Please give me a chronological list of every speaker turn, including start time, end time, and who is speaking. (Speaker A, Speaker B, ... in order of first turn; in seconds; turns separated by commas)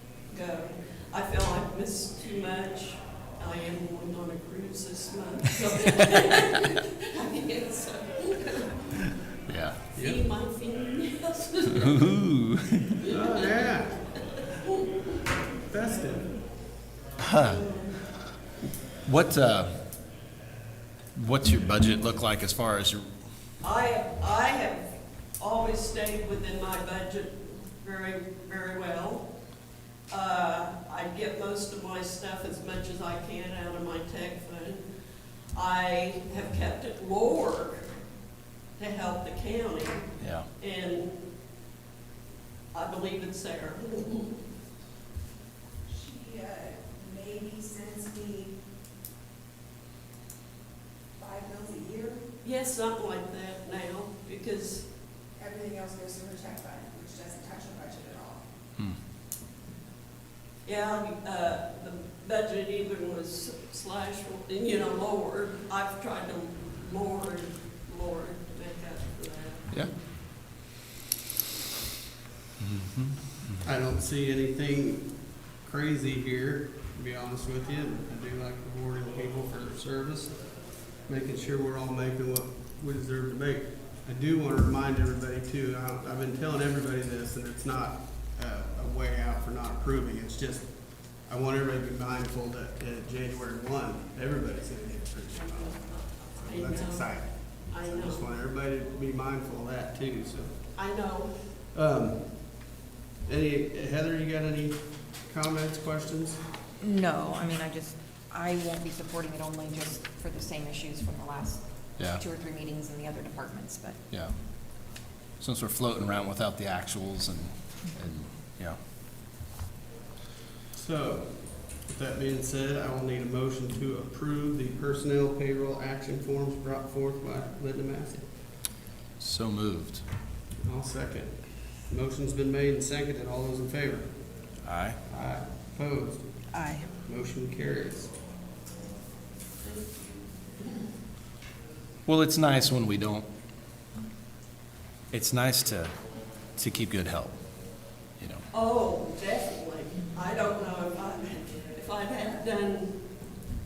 Speaker A: 0.3-9.1, Speaker B: 9.5-9.8, Speaker A: 9.9-12.2, Speaker C: 9.9-10.2, Speaker B: 12.0-12.9, Speaker A: 13.0-15.2, Speaker C: 13.1-14.1, Speaker C: 15.7-16.3, Speaker B: 17.2-17.6, Speaker A: 17.4-18.1, Speaker B: 19.1-19.8, Speaker B: 21.1-23.1, Speaker A: 23.6-29.5, Speaker A: 30.1-37.9, Speaker A: 38.8-41.2, Speaker B: 40.2-40.5, Speaker A: 42.7-44.3, Speaker D: 45.9-48.5, Speaker D: 51.2-52.2, Speaker A: 52.4-54.9, Speaker D: 55.4-58.4, Speaker A: 60.6-69.7, Speaker B: 72.6-73.7, Speaker C: 73.6-101.1, Speaker A: 95.3-98.2, Speaker A: 100.8-101.5, Speaker C: 101.7-106.4, Speaker E: 106.8-114.0, Speaker B: 112.0-112.2, Speaker B: 115.4-118.8, Speaker C: 120.7-128.3, Speaker B: 129.2-130.0, Speaker C: 130.6-134.5, Speaker B: 134.6-135.0, Speaker C: 135.1-136.5, Speaker E: 136.5-136.9, Speaker C: 137.0-138.1, Speaker A: 139.6-140.3, Speaker B: 142.1-143.3, Speaker B: 145.1-145.9, Speaker B: 146.5-148.4, Speaker A: 148.5-153.2